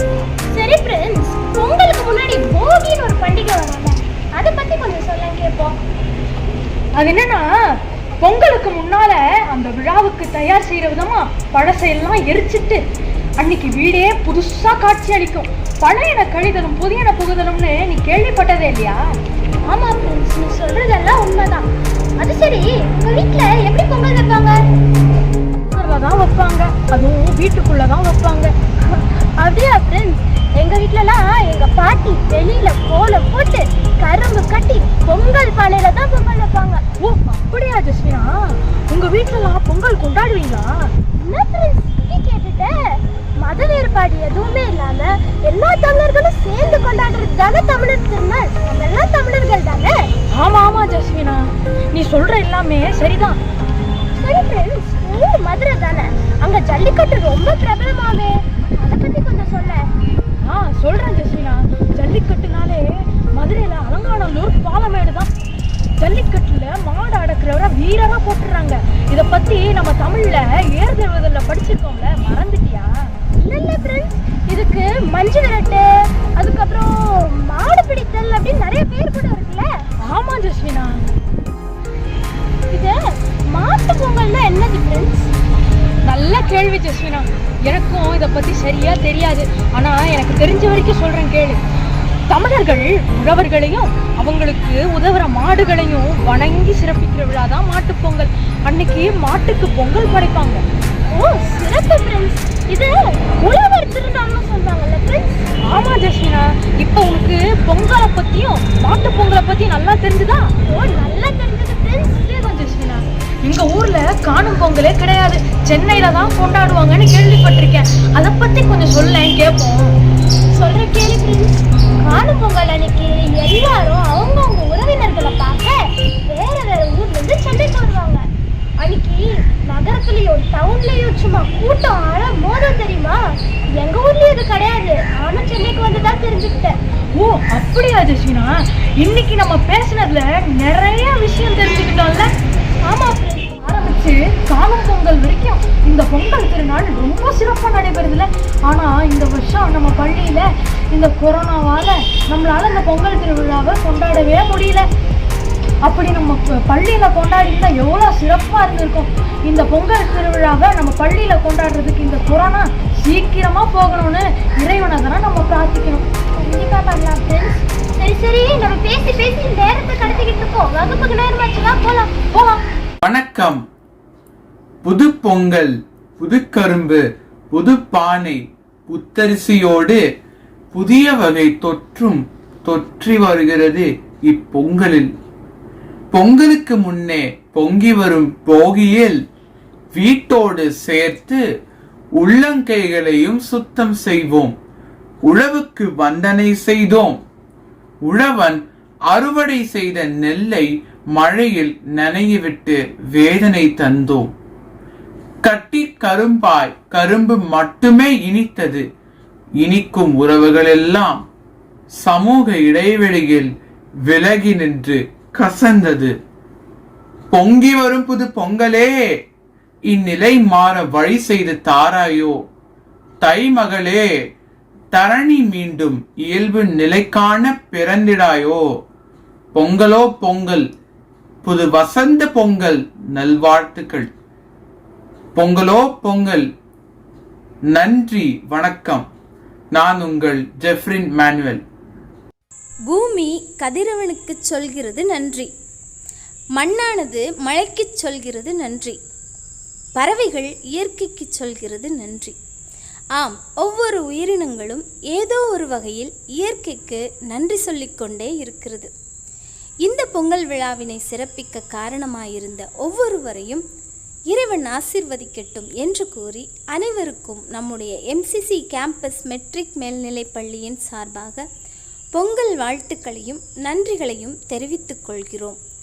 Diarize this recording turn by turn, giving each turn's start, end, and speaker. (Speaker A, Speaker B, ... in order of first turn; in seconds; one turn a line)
Speaker A: 0.5-5.7
Speaker B: 7.0-7.4
Speaker B: 8.2-12.8
Speaker B: 13.4-19.0
Speaker A: 19.6-21.6
Speaker A: 22.2-24.6
Speaker B: 25.7-28.5
Speaker A: 28.9-36.8
Speaker B: 37.0-38.2
Speaker B: 38.9-40.6
Speaker A: 41.2-50.0
Speaker B: 50.4-51.4
Speaker B: 51.9-53.4
Speaker A: 54.2-59.8
Speaker B: 60.4-62.8
Speaker B: 63.3-65.3
Speaker B: 66.0-72.9
Speaker A: 73.4-75.8
Speaker A: 76.4-79.7
Speaker B: 80.0-81.1
Speaker A: 82.7-83.0
Speaker A: 83.5-85.3
Speaker B: 86.0-91.6
Speaker B: 92.3-100.6
Speaker A: 101.1-105.4
Speaker B: 105.7-110.6
Speaker A: 110.7-112.3
Speaker B: 112.2-119.9
Speaker A: 120.5-125.8
Speaker A: 126.3-128.2
Speaker A: 128.8-133.2
Speaker A: 133.8-136.8
Speaker B: 137.2-138.5
Speaker B: 139.0-142.2
Speaker A: 142.9-143.6
Speaker B: 143.5-154.8
Speaker B: 155.8-166.1
Speaker A: 166.3-172.6
Speaker C: 173.0-173.6
Speaker C: 174.8-177.0
Speaker C: 177.5-180.0
Speaker C: 180.7-185.1
Speaker C: 186.1-189.2
Speaker C: 189.9-191.4
Speaker C: 192.2-194.5
Speaker C: 195.3-197.2
Speaker C: 198.1-198.6
Speaker C: 199.1-200.6
Speaker C: 201.1-204.3
Speaker C: 205.4-208.8
Speaker C: 209.6-211.2
Speaker C: 212.0-213.5
Speaker C: 214.1-216.1
Speaker C: 217.3-218.9
Speaker C: 219.9-222.3
Speaker C: 223.2-224.0
Speaker C: 224.9-228.6
Speaker C: 229.6-230.6
Speaker C: 231.4-234.1
Speaker C: 235.3-236.4
Speaker C: 237.7-239.0
Speaker C: 239.7-241.6
Speaker D: 242.9-245.5
Speaker D: 246.6-249.0
Speaker D: 249.9-252.3
Speaker D: 253.2-258.9
Speaker D: 259.8-263.6
Speaker D: 264.3-271.4
Speaker D: 272.1-275.6